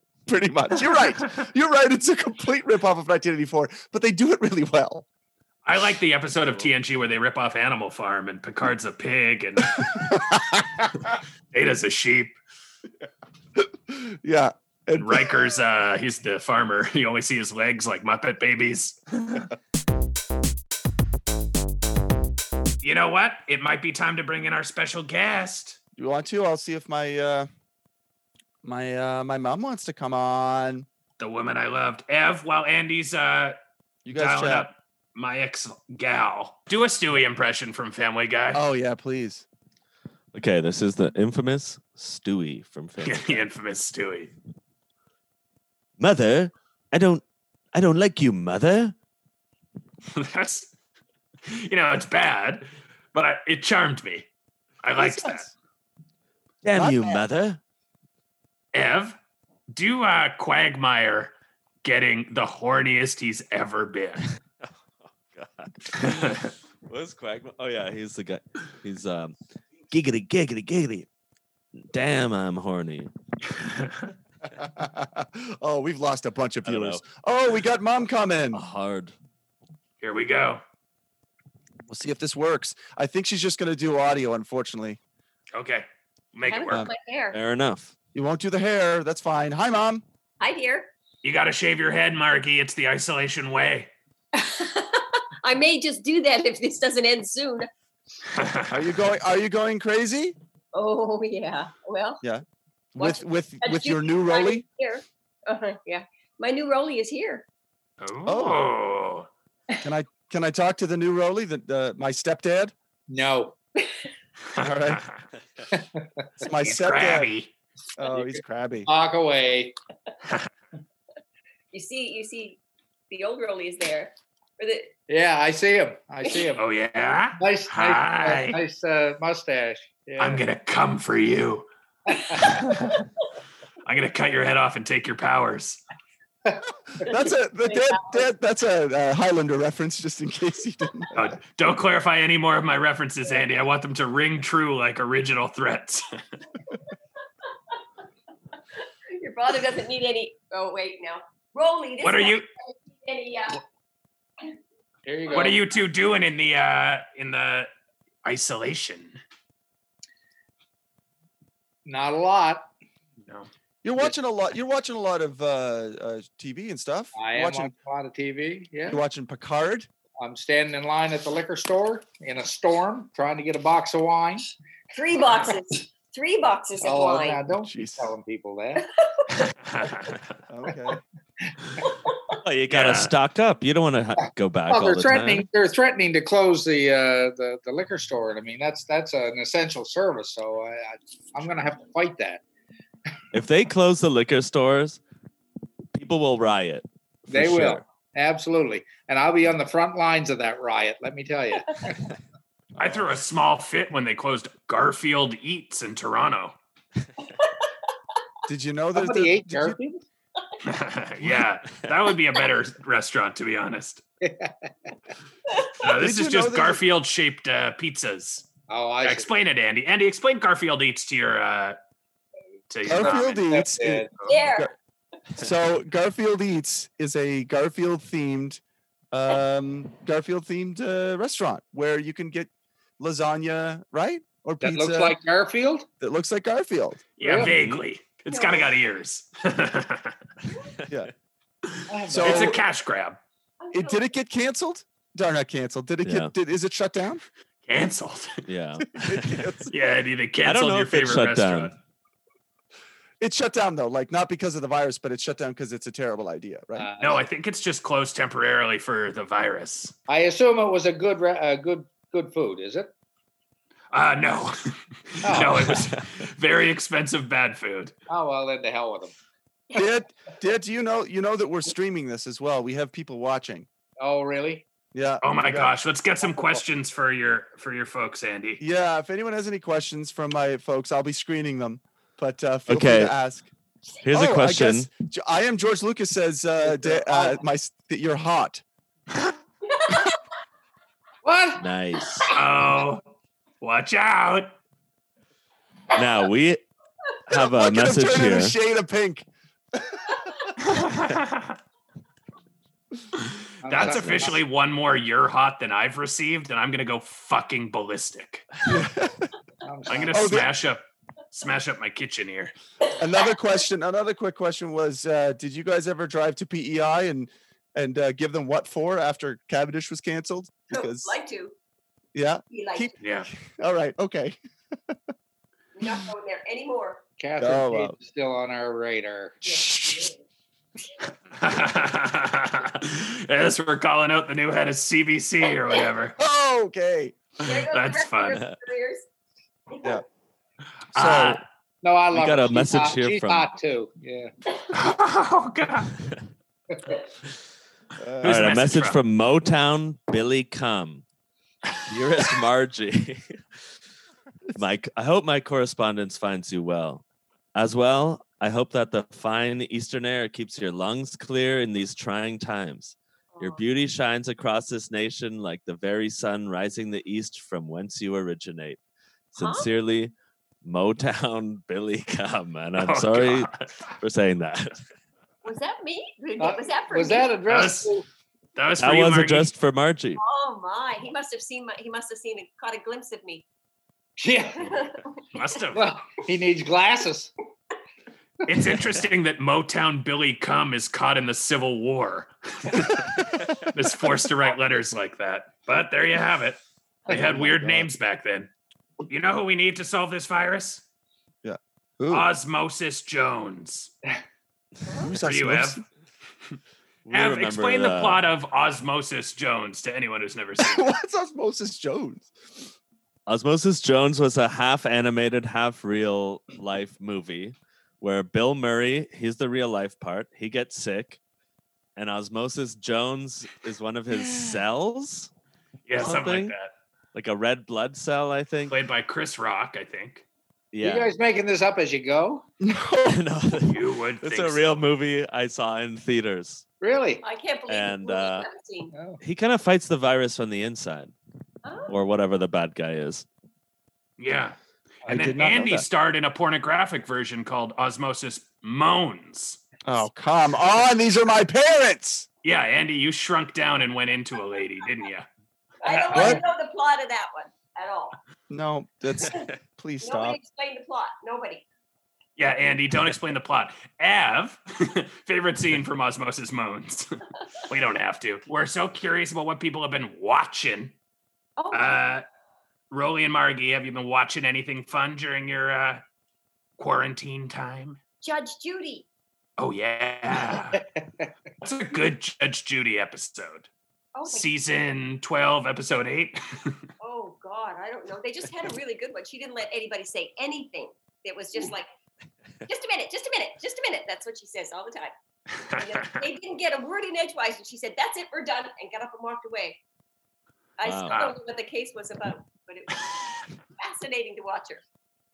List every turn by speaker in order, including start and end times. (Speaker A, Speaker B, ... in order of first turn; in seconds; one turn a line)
Speaker A: 0.3-5.0
Speaker B: 5.7-9.9
Speaker A: 9.8-10.9
Speaker B: 11.5-12.3
Speaker A: 13.6-15.5
Speaker B: 15.0-19.5
Speaker B: 22.8-25.8
Speaker A: 26.0-27.5
Speaker A: 28.6-30.9
Speaker B: 31.2-33.6
Speaker A: 34.0-34.7
Speaker B: 34.1-38.6
Speaker A: 38.5-39.5
Speaker C: 40.3-43.5
Speaker B: 43.0-44.3
Speaker C: 46.0-47.2
Speaker C: 47.7-49.0
Speaker B: 50.1-50.7
Speaker B: 51.5-54.3
Speaker B: 54.8-55.5
Speaker A: 55.0-55.5
Speaker C: 56.6-57.6
Speaker A: 56.7-57.2
Speaker B: 58.7-59.2
Speaker B: 59.7-61.3
Speaker B: 61.8-64.3
Speaker C: 64.6-69.4
Speaker B: 66.0-66.5
Speaker C: 69.9-71.1
Speaker C: 71.8-73.1
Speaker B: 73.5-74.1
Speaker A: 74.5-78.6
Speaker C: 76.6-77.0
Speaker C: 78.5-79.1
Speaker B: 80.0-80.6
Speaker A: 81.9-85.0
Speaker B: 85.5-86.9
Speaker D: 86.5-87.4
Speaker C: 87.3-87.9
Speaker A: 88.1-90.0
Speaker D: 90.4-90.9
Speaker B: 91.2-93.9
Speaker D: 94.3-97.7
Speaker B: 98.3-98.7
Speaker A: 98.7-100.4
Speaker D: 100.7-102.2
Speaker A: 103.0-104.7
Speaker D: 103.0-107.5
Speaker B: 108.0-109.3
Speaker A: 108.3-108.7
Speaker A: 109.8-112.7
Speaker E: 113.1-113.6
Speaker D: 113.8-114.1
Speaker B: 114.5-115.1
Speaker A: 114.6-115.0
Speaker E: 115.7-116.5
Speaker A: 116.4-117.3
Speaker B: 116.6-117.5
Speaker A: 118.0-118.9
Speaker E: 118.1-119.8
Speaker D: 121.7-124.9
Speaker E: 125.1-126.6
Speaker B: 126.6-128.6
Speaker E: 127.4-130.4
Speaker B: 130.2-131.7
Speaker E: 132.1-132.4
Speaker B: 132.4-133.0
Speaker B: 133.8-135.8
Speaker A: 137.0-141.3
Speaker D: 137.1-138.2
Speaker B: 141.1-146.1
Speaker D: 149.1-153.6
Speaker B: 152.0-152.5
Speaker E: 155.1-155.7
Speaker B: 155.3-157.7
Speaker B: 158.2-159.2
Speaker E: 161.9-162.7
Speaker A: 163.8-167.7
Speaker E: 167.2-169.0
Speaker A: 168.9-169.9
Speaker E: 170.2-174.4
Speaker D: 174.9-177.4
Speaker E: 176.8-178.8
Speaker A: 177.6-178.1
Speaker D: 178.8-179.2
Speaker B: 179.4-180.4
Speaker A: 180.5-181.0
Speaker C: 182.4-185.5
Speaker B: 182.7-183.1
Speaker E: 184.2-192.4
Speaker C: 193.3-195.0
Speaker C: 195.9-197.8
Speaker E: 197.3-202.0
Speaker B: 202.8-206.6
Speaker A: 208.5-209.8
Speaker E: 208.9-210.1
Speaker B: 210.6-214.0
Speaker E: 214.2-214.7
Speaker B: 215.8-218.5
Speaker A: 215.9-216.8
Speaker E: 218.7-219.3
Speaker B: 219.0-221.8
Speaker B: 222.7-223.5
Speaker A: 222.9-224.7
Speaker E: 222.9-224.4
Speaker D: 224.2-224.7
Speaker A: 225.4-228.6
Speaker A: 229.1-235.2
Speaker E: 234.6-235.9
Speaker A: 236.0-237.0
Speaker B: 237.2-240.2
Speaker E: 237.2-237.5
Speaker C: 237.4-237.8
Speaker D: 238.3-238.7
Speaker D: 240.5-240.7
Speaker C: 240.8-241.1
Speaker E: 241.9-242.6
Speaker A: 242.1-242.6
Speaker B: 242.2-243.2
Speaker D: 243.6-244.1
Speaker A: 243.7-247.2
Speaker C: 246.0-246.3
Speaker B: 247.7-248.4
Speaker C: 248.5-249.5
Speaker A: 248.9-249.7
Speaker B: 249.7-251.8
Speaker C: 250.4-251.7
Speaker A: 253.2-256.9
Speaker E: 256.8-257.2
Speaker B: 257.0-259.9
Speaker E: 260.1-262.9
Speaker B: 263.9-267.9
Speaker E: 265.2-265.6
Speaker E: 268.1-269.1
Speaker A: 269.7-273.7
Speaker E: 274.0-274.6
Speaker A: 274.9-275.7
Speaker B: 275.2-278.6
Speaker E: 276.2-276.6
Speaker A: 278.6-283.5
Speaker C: 282.7-283.1
Speaker C: 284.0-284.9
Speaker A: 284.1-288.6
Speaker E: 286.6-287.4
Speaker D: 289.7-290.1
Speaker E: 291.2-291.6
Speaker C: 291.6-292.3
Speaker B: 292.3-293.0
Speaker B: 293.6-294.5
Speaker C: 295.9-296.6
Speaker C: 297.3-298.5
Speaker A: 297.3-300.0
Speaker B: 300.6-301.6
Speaker B: 303.2-308.5
Speaker E: 303.6-304.4
Speaker A: 303.8-304.4
Speaker A: 308.7-309.3
Speaker E: 309.6-310.3
Speaker B: 309.9-312.5
Speaker A: 310.1-310.5
Speaker A: 313.0-321.2
Speaker D: 320.7-321.6
Speaker A: 322.1-324.4
Speaker D: 322.5-322.9
Speaker B: 323.0-323.3
Speaker D: 325.8-327.0
Speaker E: 327.2-329.4
Speaker A: 327.4-328.0
Speaker D: 329.4-330.2
Speaker A: 329.5-330.1
Speaker B: 331.3-336.2
Speaker A: 336.2-337.2
Speaker D: 337.4-339.1
Speaker B: 337.4-338.4
Speaker D: 339.7-340.0
Speaker A: 340.9-341.4
Speaker B: 340.9-341.4
Speaker E: 341.8-344.3
Speaker C: 342.1-343.5
Speaker B: 344.7-345.9
Speaker A: 348.0-348.4
Speaker B: 348.2-349.0
Speaker C: 348.2-351.1
Speaker C: 351.9-353.4
Speaker C: 354.6-357.0
Speaker C: 357.6-368.8
Speaker D: 363.3-363.6
Speaker C: 369.3-374.8
Speaker D: 369.4-369.7
Speaker B: 372.8-373.9
Speaker D: 375.4-377.4
Speaker E: 376.4-378.0
Speaker B: 377.5-377.9
Speaker B: 378.6-379.5
Speaker C: 378.8-380.2
Speaker D: 380.2-383.4
Speaker E: 384.2-384.7
Speaker D: 384.6-385.0
Speaker B: 385.3-385.9
Speaker E: 385.8-387.3
Speaker B: 388.5-393.1
Speaker B: 393.7-398.5
Speaker A: 397.1-397.9
Speaker B: 399.1-400.8
Speaker A: 401.4-402.3
Speaker B: 402.1-403.9
Speaker A: 405.0-405.8
Speaker B: 405.2-405.8
Speaker C: 407.1-408.3
Speaker B: 407.1-410.9
Speaker A: 410.6-412.3
Speaker C: 413.3-421.2
Speaker C: 422.0-425.3
Speaker B: 425.9-426.7
Speaker C: 426.0-426.5
Speaker C: 427.1-428.8
Speaker B: 428.7-430.2
Speaker C: 430.7-431.1
Speaker E: 430.8-432.4
Speaker A: 432.6-433.2
Speaker C: 433.1-436.7
Speaker B: 433.7-434.9
Speaker E: 436.8-437.2
Speaker D: 437.2-438.9
Speaker C: 437.7-438.5
Speaker E: 438.9-439.2
Speaker C: 439.2-441.1
Speaker D: 441.6-441.9
Speaker C: 441.9-443.2
Speaker B: 444.2-449.6
Speaker A: 445.1-445.9
Speaker A: 449.9-452.3
Speaker B: 452.4-455.3
Speaker D: 455.8-458.2
Speaker B: 455.8-456.4
Speaker A: 456.1-456.4
Speaker A: 458.5-460.4
Speaker D: 460.0-461.6
Speaker B: 462.4-467.1
Speaker B: 467.7-470.9
Speaker D: 471.6-472.1
Speaker B: 471.7-472.2
Speaker B: 472.9-476.0
Speaker B: 476.8-478.0
Speaker D: 478.2-479.1
Speaker B: 479.6-480.8
Speaker E: 480.8-481.3
Speaker B: 481.6-483.7
Speaker D: 484.1-484.5
Speaker B: 484.3-486.8
Speaker D: 487.0-491.9
Speaker D: 492.7-495.1
Speaker B: 495.6-496.2
Speaker D: 495.8-499.8
Speaker D: 500.8-503.2
Speaker C: 500.8-501.2
Speaker B: 501.1-501.4
Speaker D: 503.8-504.8